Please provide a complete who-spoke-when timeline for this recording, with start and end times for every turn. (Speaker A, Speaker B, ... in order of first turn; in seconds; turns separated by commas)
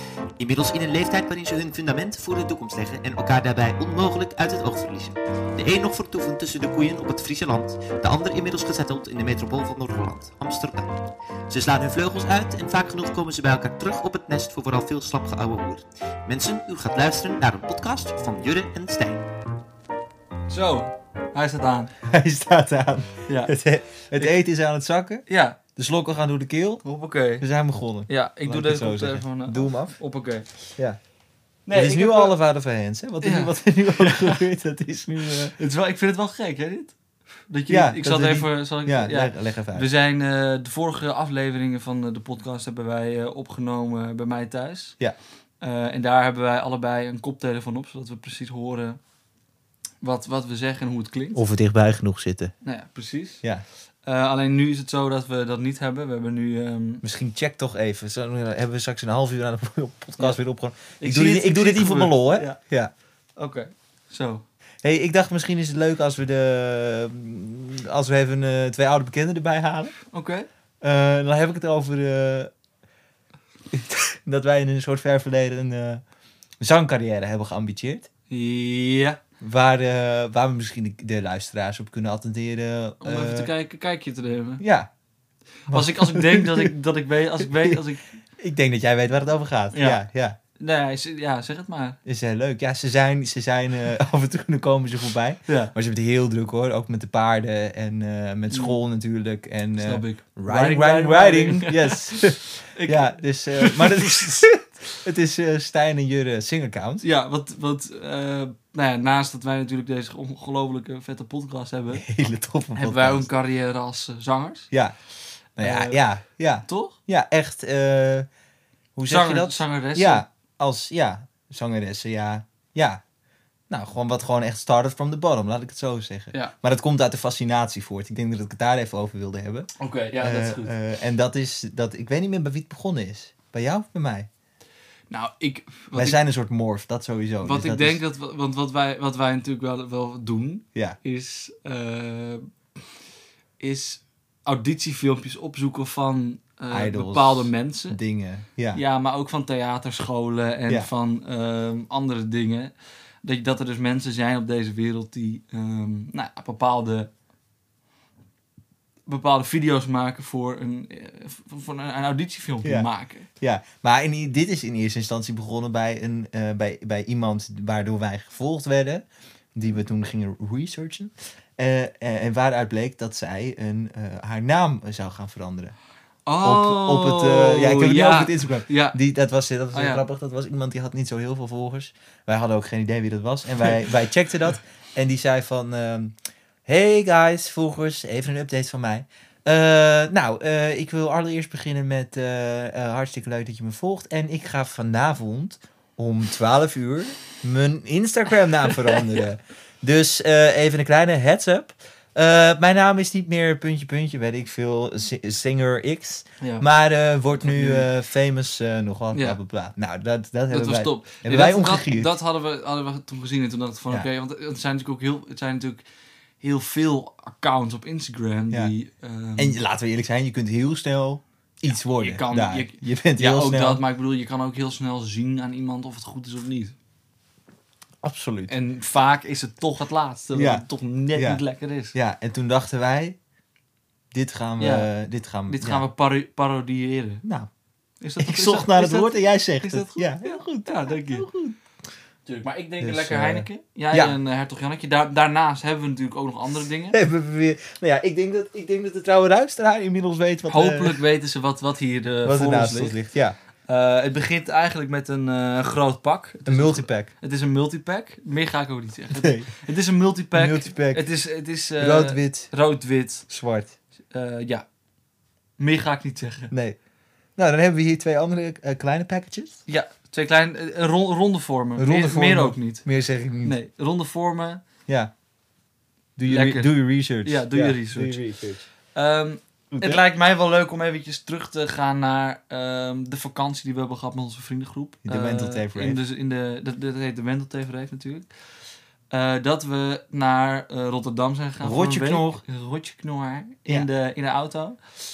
Speaker A: 0.4-19.2, Speaker B: 20.5-21.9, Speaker C: 22.0-26.8, Speaker B: 23.3-23.5, Speaker B: 25.3-25.6, Speaker B: 26.8-27.4, Speaker C: 27.4-30.0, Speaker B: 28.1-30.5, Speaker B: 31.7-32.4, Speaker C: 31.7-35.5, Speaker B: 33.2-34.4, Speaker B: 35.5-37.0, Speaker B: 37.5-45.0, Speaker C: 37.7-39.9, Speaker B: 45.6-49.0, Speaker B: 50.0-51.4, Speaker C: 51.4-52.5, Speaker B: 52.6-53.4, Speaker B: 54.0-57.0, Speaker C: 57.0-62.9, Speaker B: 61.0-62.6, Speaker B: 63.4-64.5, Speaker C: 64.8-70.0, Speaker B: 70.1-70.5, Speaker C: 70.8-72.5, Speaker C: 73.7-76.0, Speaker C: 76.6-78.1, Speaker B: 78.3-79.2, Speaker C: 79.4-83.5, Speaker B: 83.0-84.6, Speaker C: 84.6-84.9, Speaker B: 85.7-88.1, Speaker C: 85.7-86.7, Speaker C: 88.4-90.4, Speaker B: 89.7-90.0, Speaker B: 90.6-92.0, Speaker C: 92.0-107.0, Speaker B: 95.5-95.7, Speaker B: 98.5-98.8, Speaker B: 99.8-104.5, Speaker B: 107.0-112.1, Speaker C: 111.9-113.3, Speaker B: 112.8-114.7, Speaker C: 115.6-118.3, Speaker B: 115.6-116.0, Speaker B: 116.7-117.0, Speaker C: 119.0-123.0, Speaker B: 119.1-120.2, Speaker C: 123.7-134.3, Speaker B: 129.8-130.7, Speaker B: 135.1-136.2, Speaker C: 135.9-138.0, Speaker B: 137.4-142.5, Speaker B: 143.6-148.0, Speaker C: 146.7-148.8, Speaker B: 148.7-152.7, Speaker B: 153.2-157.1, Speaker B: 159.1-163.3, Speaker C: 162.6-162.9, Speaker C: 163.4-175.8, Speaker B: 176.3-179.0, Speaker C: 176.4-212.1, Speaker B: 179.7-180.0, Speaker B: 207.4-207.9, Speaker B: 209.1-209.4, Speaker B: 210.5-215.8, Speaker B: 216.4-219.6, Speaker C: 219.4-223.8, Speaker B: 222.0-226.8, Speaker C: 228.0-228.5, Speaker B: 228.5-231.9, Speaker C: 230.3-231.4, Speaker C: 231.9-233.2, Speaker C: 234.1-235.9, Speaker B: 234.6-234.9, Speaker B: 235.5-237.2, Speaker C: 237.2-237.5, Speaker B: 238.0-241.3, Speaker C: 238.2-241.6, Speaker B: 242.3-247.0, Speaker C: 242.8-244.2, Speaker C: 246.9-251.0, Speaker B: 250.5-253.0, Speaker C: 252.2-253.3, Speaker B: 253.7-263.3, Speaker C: 256.5-257.1, Speaker C: 259.1-259.5, Speaker C: 260.3-261.1, Speaker C: 261.8-262.5, Speaker C: 263.3-263.7, Speaker B: 264.1-264.6, Speaker B: 265.6-266.5, Speaker C: 266.5-266.8, Speaker C: 267.4-269.6, Speaker B: 269.7-272.9, Speaker C: 271.8-273.6, Speaker B: 273.4-274.6, Speaker C: 274.9-275.1, Speaker C: 276.2-278.7, Speaker B: 276.3-278.2, Speaker B: 278.9-288.3, Speaker C: 279.7-280.0, Speaker C: 285.0-286.0, Speaker B: 289.1-294.8, Speaker C: 291.6-292.4